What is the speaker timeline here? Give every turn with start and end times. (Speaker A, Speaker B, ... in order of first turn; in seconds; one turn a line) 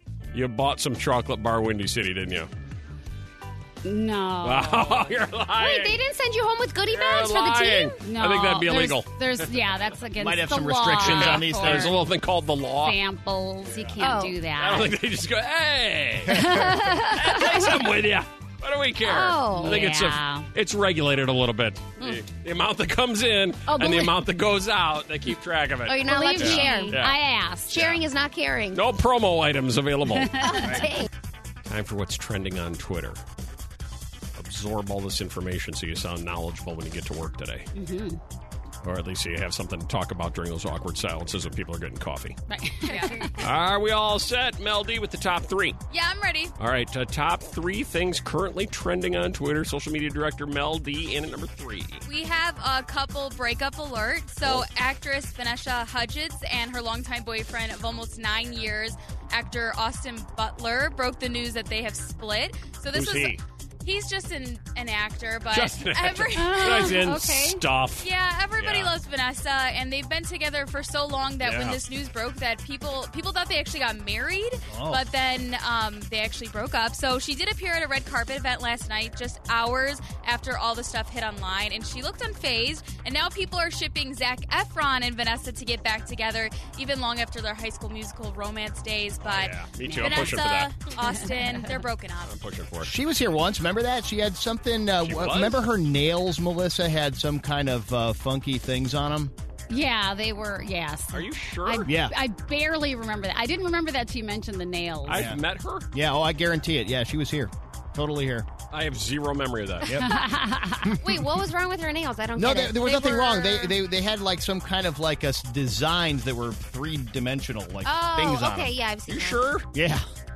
Speaker A: 0.3-2.5
Speaker B: 3.8-5.1
Speaker A: 4.4-6.0
Speaker C: 5.6-7.9
Speaker A: 6.8-9.8
Speaker B: 8.0-12.0
Speaker D: 10.2-11.9
Speaker A: 11.0-13.0
Speaker B: 12.8-14.9
Speaker A: 13.7-14.0
Speaker C: 14.0-14.4
Speaker A: 14.6-27.2
Speaker B: 16.3-17.7
Speaker C: 19.0-19.9
Speaker B: 19.5-20.5
Speaker B: 23.7-24.1
Speaker C: 25.9-27.0
Speaker B: 26.1-27.8
Speaker C: 27.7-28.8
Speaker A: 27.7-28.0
Speaker A: 28.7-30.5
Speaker B: 30.1-30.9
Speaker C: 30.4-31.1
Speaker A: 31.6-33.2
Speaker A: 34.4-37.7
Speaker B: 37.7-38.2
Speaker A: 38.8-42.4
Speaker B: 42.5-43.4
Speaker E: 43.0-43.3
Speaker A: 43.4-45.8
Speaker E: 45.9-46.5
Speaker A: 46.6-52.0
Speaker E: 52.0-67.0
Speaker A: 62.9-63.4
Speaker A: 65.5-68.1
Speaker B: 66.4-67.6
Speaker E: 68.0-92.3
Speaker A: 68.6-68.9
Speaker A: 71.4-71.8
Speaker D: 74.7-75.0
Speaker A: 89.2-90.7
Speaker B: 89.8-90.4
Speaker B: 91.0-91.8
Speaker A: 92.2-92.9
Speaker D: 92.8-99.3
Speaker A: 95.0-95.6
Speaker B: 99.7-105.2
Speaker A: 101.1-101.9
Speaker D: 101.8-102.1
Speaker A: 105.0-105.9
Speaker D: 105.1-105.4
Speaker D: 105.9-108.5
Speaker A: 108.7-110.0
Speaker B: 110.0-110.9
Speaker D: 110.8-111.2
Speaker C: 111.0-113.7
Speaker D: 112.3-118.7
Speaker C: 117.8-119.4
Speaker A: 119.1-119.7
Speaker D: 119.7-120.0